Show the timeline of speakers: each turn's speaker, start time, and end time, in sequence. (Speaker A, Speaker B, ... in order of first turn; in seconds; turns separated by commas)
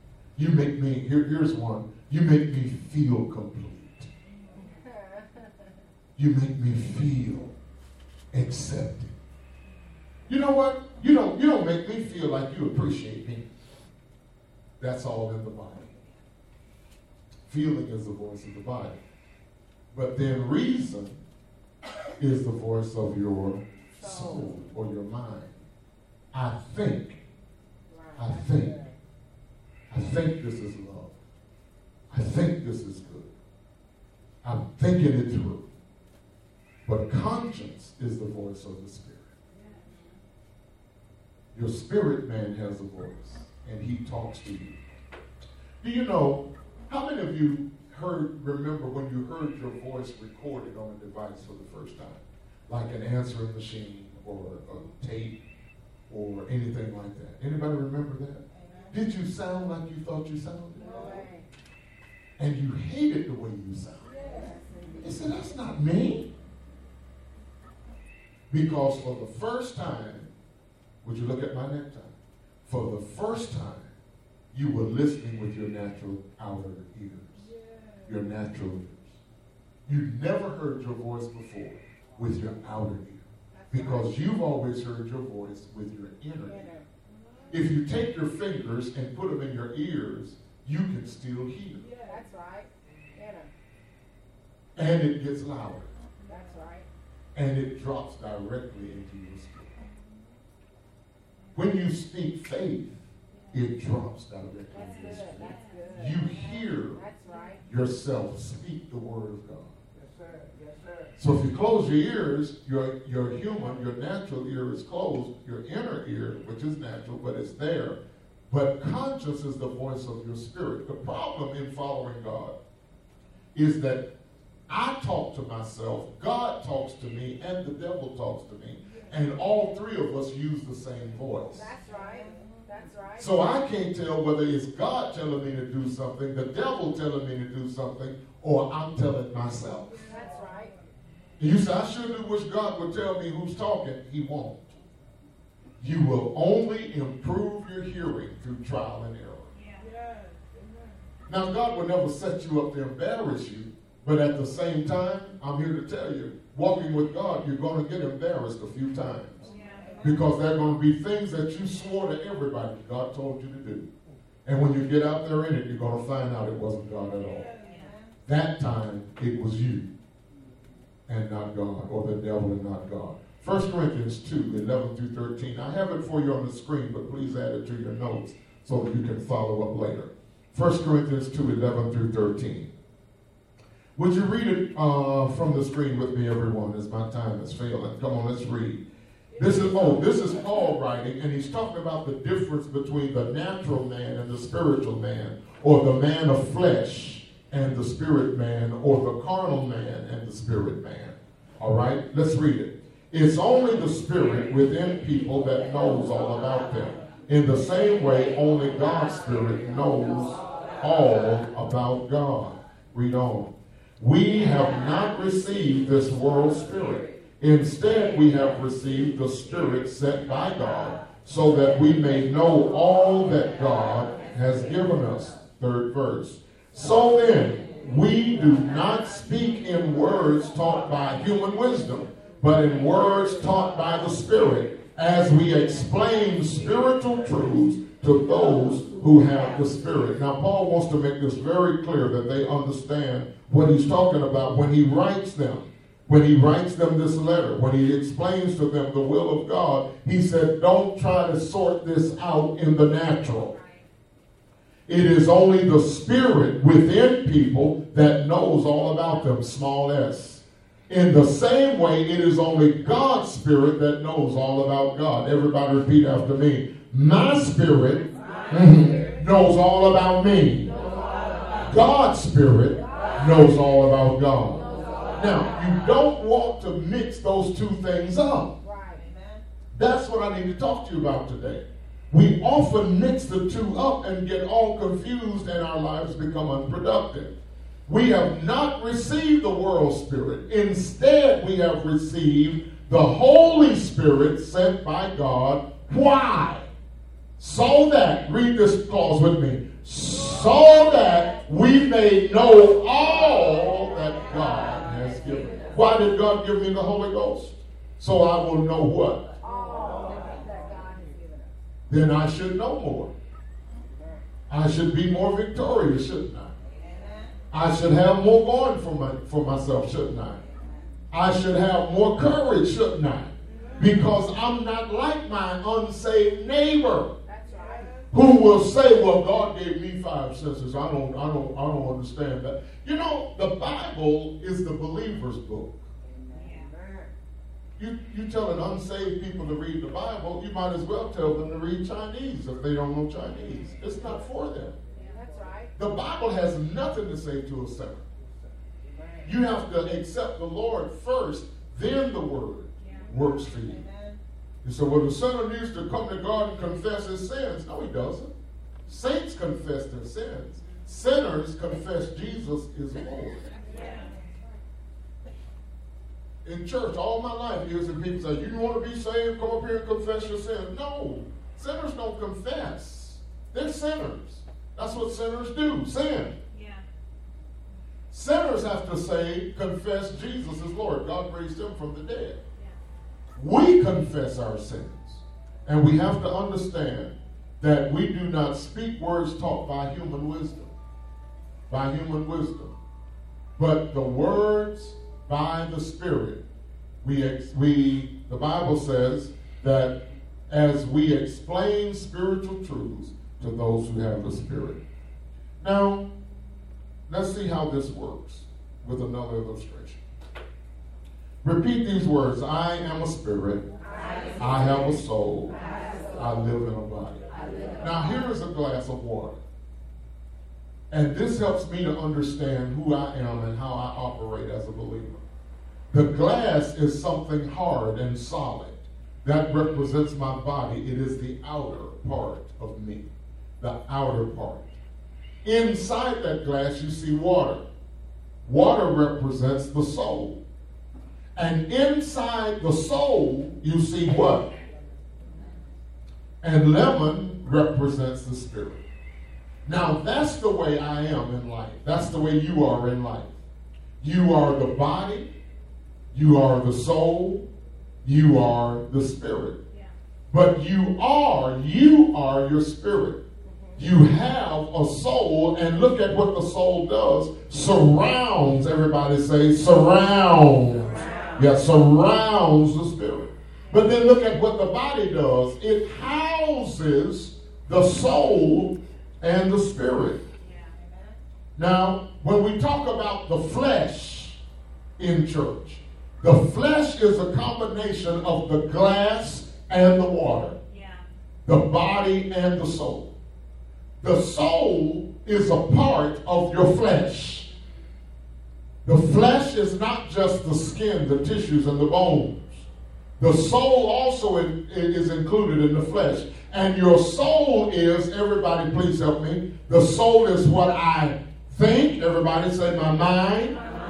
Speaker A: 0.3-4.1, Speaker B: 4.6-5.5, Speaker A: 6.2-7.5, Speaker A: 8.3-9.1, Speaker A: 10.3-13.5, Speaker A: 14.8-16.0, Speaker A: 17.5-19.0, Speaker A: 19.9-21.2, Speaker A: 22.2-25.6, Speaker B: 24.0-24.5, Speaker A: 26.3-27.2, Speaker B: 27.9-28.8, Speaker A: 28.2-28.8, Speaker A: 29.9-31.1, Speaker A: 32.1-33.3, Speaker A: 34.4-35.6, Speaker A: 36.9-39.3, Speaker C: 39.5-40.1, Speaker A: 41.5-44.8, Speaker A: 45.8-55.4, Speaker A: 56.1-61.2, Speaker B: 60.8-61.5, Speaker A: 62.4-64.1, Speaker B: 64.0-65.4, Speaker A: 65.0-66.3, Speaker A: 68.5-70.3, Speaker A: 71.0-73.9, Speaker A: 74.5-77.5, Speaker A: 78.0-79.2, Speaker A: 79.8-86.6, Speaker B: 83.5-84.1, Speaker B: 86.5-86.8, Speaker A: 87.5-91.8, Speaker B: 92.0-93.5, Speaker A: 94.8-95.9, Speaker B: 96.2-96.9, Speaker A: 97.3-99.7, Speaker A: 101.5-103.0, Speaker A: 103.5-107.0, Speaker B: 104.7-107.6, Speaker A: 107.6-109.7, Speaker A: 111.2-118.0, Speaker A: 118.5-122.5, Speaker A: 123.5-124.0, Speaker A: 124.7-131.7, Speaker B: 131.5-133.4, Speaker A: 133.2-140.0, Speaker B: 140.0-140.8, Speaker A: 141.4-144.8, Speaker A: 145.8-149.5, Speaker C: 149.5-149.9, Speaker A: 151.3-159.5, Speaker C: 159.5-160.0, Speaker A: 160.0-163.9, Speaker A: 164.4-167.5, Speaker C: 167.6-167.9, Speaker A: 168.2-169.9, Speaker A: 171.1-182.7, Speaker A: 183.9-188.8, Speaker A: 189.4-253.5, Speaker A: 254.9-270.8, Speaker A: 271.6-278.6, Speaker B: 278.6-279.1, Speaker A: 279.7-287.3, Speaker A: 287.9-296.7, Speaker A: 297.4-309.3, Speaker B: 309.4-311.5, Speaker A: 311.9-313.1, Speaker A: 314.5-316.5, Speaker A: 317.5-320.4, Speaker A: 321.1-327.1, Speaker B: 327.2-327.9, Speaker A: 328.1-335.8, Speaker C: 336.3-336.7, Speaker A: 337.8-344.8, Speaker B: 345.0-345.7, Speaker A: 345.8-348.1, Speaker A: 349.2-353.8, Speaker A: 354.6-358.3, Speaker A: 358.9-363.5, Speaker C: 363.7-364.1, Speaker A: 366.4-376.4, Speaker C: 376.5-376.8, Speaker A: 378.1-382.4, Speaker A: 383.4-390.7, Speaker A: 391.7-392.7, Speaker A: 393.6-396.4, Speaker A: 397.0-399.9, Speaker A: 400.5-404.8, Speaker A: 405.6-406.1, Speaker A: 407.1-410.0, Speaker A: 411.4-413.6, Speaker A: 414.4-415.6, Speaker A: 416.1-417.2, Speaker A: 417.8-419.4, Speaker A: 420.9-425.2, Speaker A: 425.9-434.7, Speaker A: 435.4-437.6, Speaker A: 438.4-440.4, Speaker A: 441.4-444.5, Speaker A: 446.4-448.8, Speaker A: 449.6-453.4, Speaker A: 454.0-455.3, Speaker A: 456.1-457.4, Speaker A: 458.0-459.6, Speaker A: 460.3-463.2, Speaker B: 463.4-463.8, Speaker A: 463.8-480.2, Speaker C: 480.4-480.8, Speaker A: 481.6-484.4, Speaker A: 485.0-490.6, Speaker C: 490.7-491.0, Speaker A: 491.4-493.1, Speaker A: 494.0-497.5, Speaker A: 498.8-502.7, Speaker A: 503.2-513.6